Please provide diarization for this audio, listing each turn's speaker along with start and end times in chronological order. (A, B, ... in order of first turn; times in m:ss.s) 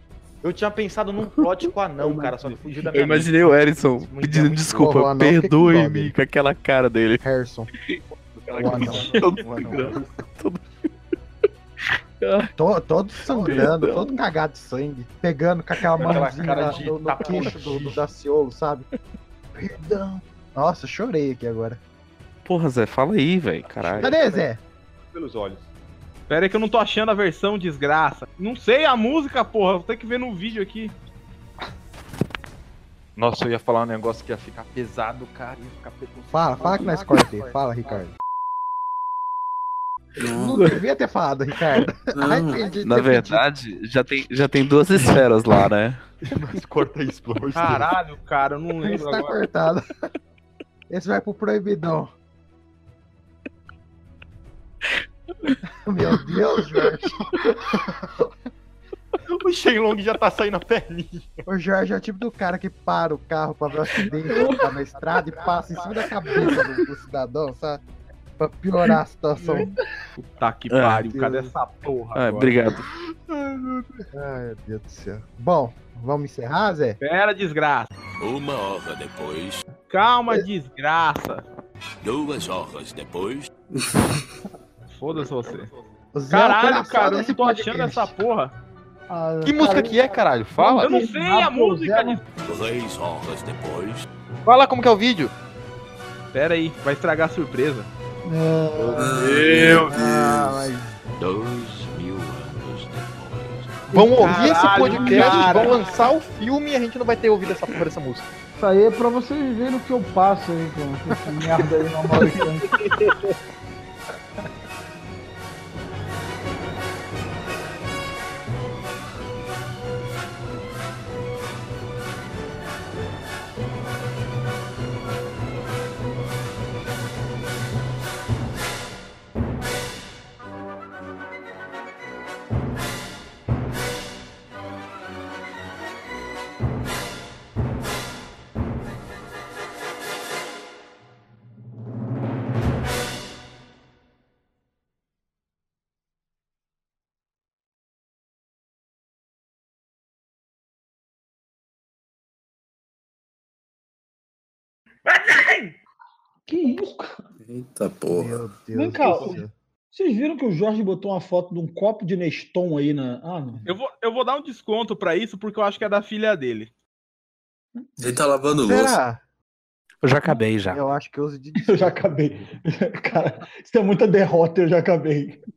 0:00.4-0:04.8 A
0:02.9-0:07.2 B
0:04.7-0:06.1 C
0:07.2-0:07.7 C
0:07.8-0:10.6 B
0:08.6-0:09.8 A
0:08.6-0:10.1 C
0:12.2-0:12.5 B
0:12.6-0:18.9 C
0:13.2-0:14.2 B
0:15.9-0:18.0 A
0:16.0-0:16.7 B
0:19.5-0:21.8 C
0:22.4-0:24.1 B
0:23.6-0:24.5 A
0:24.0-0:24.6 C
0:25.1-0:25.7 A
0:26.3-0:30.9 D
0:33.2-0:38.0 A
0:36.3-0:38.1 C
0:40.2-0:40.6 E
0:40.3-0:43.4 C
0:42.1-0:42.7 E
0:42.8-0:46.0 B
0:46.3-0:47.9 A
0:47.5-0:49.4 D
0:48.8-0:49.9 C
0:50.9-0:52.1 C
0:55.8-0:57.2 C
0:59.3-1:01.4 A
1:01.5-1:07.8 C
1:08.4-1:09.7 C
1:10.2-1:12.7 D
1:10.7-1:11.1 B
1:11.1-1:11.6 C
1:12.1-1:12.9 B
1:14.1-1:17.0 C
1:17.0-1:17.9 D
1:18.2-1:19.6 F
1:19.9-1:21.4 D
1:22.1-1:23.4 F
1:24.9-1:25.7 D
1:26.1-1:28.1 C
1:26.3-1:28.5 D
1:29.1-1:30.0 G
1:29.4-1:31.0 A
1:30.6-1:32.2 G
1:30.7-1:32.2 D
1:32.5-1:34.0 F
1:34.4-1:35.3 A
1:36.3-1:37.9 D
1:38.2-1:39.3 G
1:38.9-1:40.7 E
1:39.2-1:39.8 A
1:39.8-1:40.8 C
1:39.9-1:40.7 G
1:41.2-1:43.6 F
1:43.9-1:45.8 G
1:43.9-1:48.3 A
1:44.2-1:45.9 D
1:48.6-1:52.7 G
2:35.1-2:35.6 G
2:36.5-2:37.2 G
2:37.4-2:38.4 E
2:38.1-2:39.5 C
2:38.7-2:43.6 G
2:39.0-2:39.4 D
2:43.6-2:46.7 D
2:48.0-2:49.0 E
2:48.5-2:49.2 C
2:50.0-2:50.8 B
2:50.7-2:52.0 C
2:51.6-2:55.4 G